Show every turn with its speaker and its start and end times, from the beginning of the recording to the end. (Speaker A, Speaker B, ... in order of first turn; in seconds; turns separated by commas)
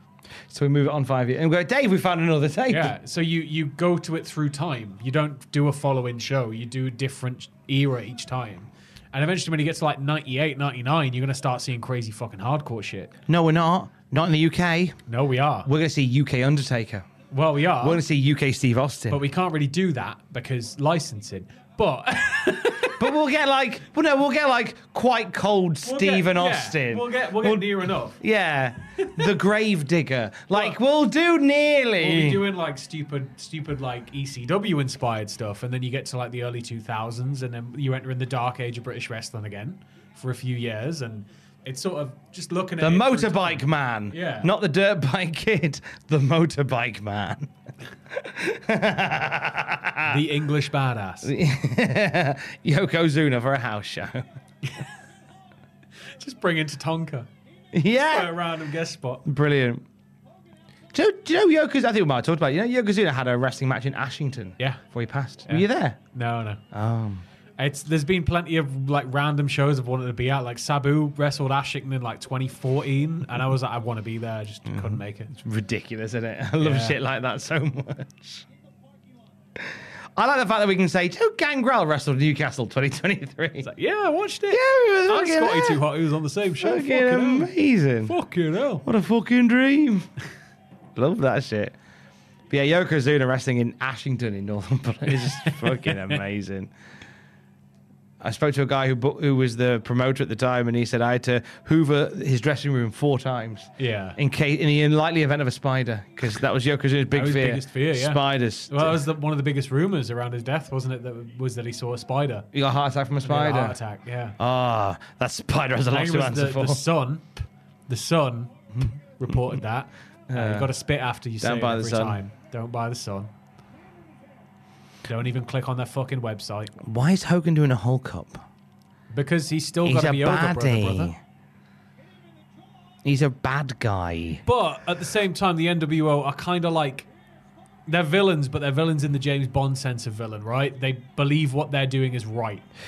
Speaker A: 0.5-2.9, Speaker B: 2.7-13.1, Speaker A: 13.3-14.9, Speaker B: 15.1-15.7, Speaker A: 15.6-17.1, Speaker B: 17.3-18.0, Speaker A: 17.8-19.2, Speaker B: 19.1-23.0, Speaker A: 23.0-32.4, Speaker B: 25.8-28.2, Speaker B: 29.0-29.3, Speaker B: 30.5-30.8, Speaker B: 32.0-44.5, Speaker A: 42.8-47.5, Speaker A: 48.1-50.2, Speaker B: 50.0-51.3, Speaker A: 51.2-54.2, Speaker B: 56.2-57.3, Speaker A: 57.7-58.3, Speaker B: 58.0-59.2, Speaker A: 59.2-59.8, Speaker A: 60.9-66.0, Speaker B: 65.5-66.6, Speaker A: 66.7-67.2, Speaker B: 67.6-75.3, Speaker A: 74.7-78.4, Speaker B: 76.6-77.0, Speaker A: 79.6-83.7, Speaker B: 83.6-87.5, Speaker A: 84.5-85.8, Speaker A: 86.6-88.1, Speaker B: 88.0-88.8, Speaker A: 88.8-90.1, Speaker A: 91.0-91.8, Speaker A: 92.5-96.7, Speaker B: 95.2-96.2, Speaker A: 98.2-109.0, Speaker B: 103.8-104.2, Speaker B: 107.1-112.5, Speaker A: 112.5-113.8, Speaker B: 113.2-114.3, Speaker A: 114.4-116.8, Speaker B: 115.9-118.5, Speaker A: 118.8-119.4, Speaker B: 119.2-123.3, Speaker A: 120.3-120.7, Speaker A: 121.4-122.2, Speaker B: 125.0-126.8, Speaker A: 126.8-128.4, Speaker B: 129.1-131.1, Speaker A: 129.8-131.1, Speaker A: 133.0-134.4, Speaker B: 134.4-137.1, Speaker B: 137.9-142.7